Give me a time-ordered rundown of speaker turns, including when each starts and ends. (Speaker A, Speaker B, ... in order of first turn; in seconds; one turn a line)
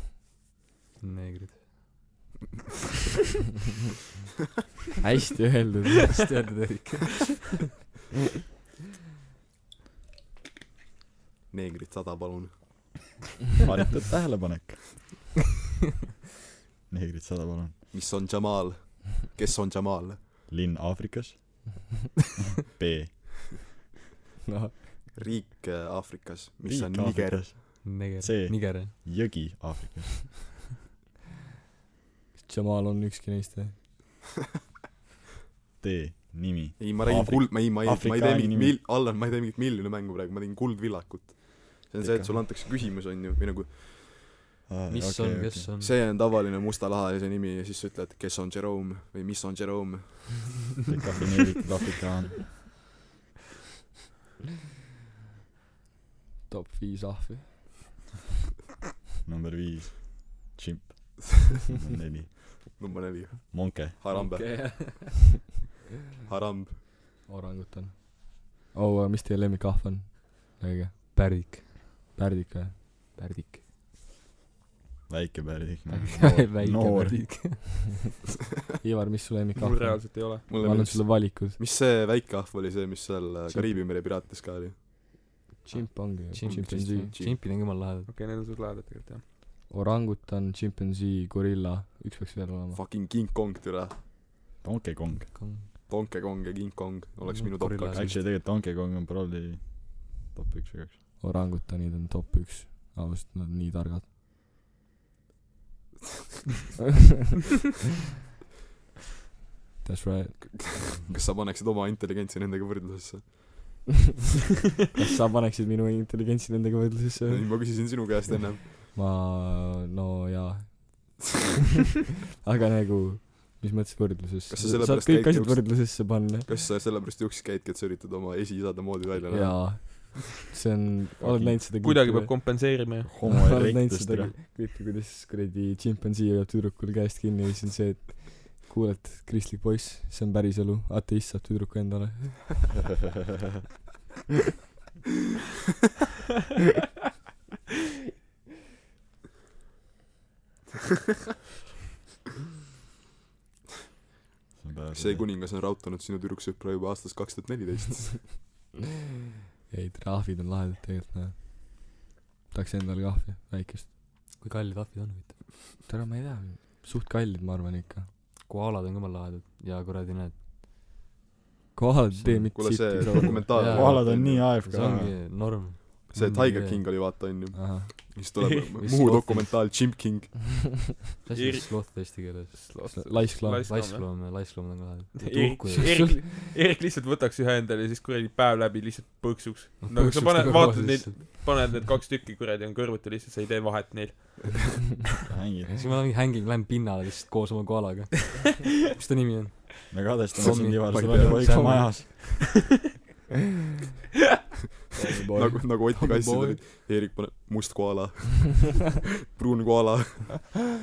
Speaker A: 1.0-1.8
Speaker B: 5.0-6.2
Speaker A: 6.1-7.4
Speaker C: 11.5-13.0
Speaker D: 13.6-15.3
Speaker D: 16.9-17.8
Speaker C: 17.9-20.2
Speaker D: 20.5-21.8
Speaker D: 22.7-23.6
Speaker B: 24.5-24.9
Speaker C: 25.1-27.7
Speaker D: 26.6-30.5
Speaker A: 27.8-28.9
Speaker B: 32.4-33.8
Speaker D: 35.8-38.8
Speaker C: 36.8-44.4
Speaker D: 42.0-42.4
Speaker D: 44.7-45.7
Speaker A: 44.9-46.0
Speaker C: 45.8-50.6
Speaker D: 50.9-52.7
Speaker B: 56.5-57.7
Speaker D: 59.2-62.8
Speaker C: 62.7-64.7
Speaker D: 63.5-64.0
Speaker B: 64.1-65.2
Speaker C: 66.3-66.8
Speaker B: 67.3-73.2
Speaker A: 71.2-72.0
Speaker A: 73.2-73.6
Speaker D: 75.1-77.4
Speaker A: 75.9-78.0
Speaker B: 78.8-81.6
Speaker E: 79.6-80.5
Speaker C: 80.5-84.8
Speaker B: 85.6-87.1
Speaker A: 85.7-88.1
Speaker C: 86.4-87.4
Speaker E: 88.1-89.2
Speaker B: 89.7-92.8
Speaker C: 92.7-94.0
Speaker D: 94.6-95.6
Speaker A: 95.3-95.8
Speaker C: 95.9-98.2
Speaker A: 97.3-98.2
Speaker D: 97.9-101.0
Speaker B: 101.2-104.1
Speaker B: 109.8-110.6
Speaker C: 110.4-113.6
Speaker B: 115.0-117.9
Speaker C: 117.3-118.8
Speaker B: 118.9-121.4
Speaker B: 122.4-126.5
Speaker C: 124.5-130.1
Speaker B: 129.3-132.6
Speaker D: 131.2-131.6
Speaker E: 131.8-133.1
Speaker D: 133.1-134.3
Speaker B: 133.2-142.8
Speaker D: 154.6-155.3
Speaker C: 154.9-158.4
Speaker B: 159.7-163.9
Speaker A: 164.4-165.5
Speaker B: 165.9-168.1
Speaker A: 168.5-170.4
Speaker B: 171.8-173.5
Speaker A: 172.2-172.5
Speaker C: 172.5-174.6
Speaker A: 173.5-176.8
Speaker D: 173.7-175.2
Speaker C: 176.1-180.7
Speaker B: 177.5-177.9
Speaker E: 178.4-178.7
Speaker A: 178.8-179.7
Speaker A: 181.2-186.2
Speaker E: 181.3-184.1
Speaker B: 182.9-183.7
Speaker E: 185.2-194.9
Speaker A: 189.8-191.5
Speaker D: 195.3-195.7
Speaker A: 195.7-202.1
Speaker D: 199.9-202.3
Speaker C: 201.0-201.3
Speaker B: 205.0-205.8
Speaker C: 205.4-210.4
Speaker A: 205.9-206.6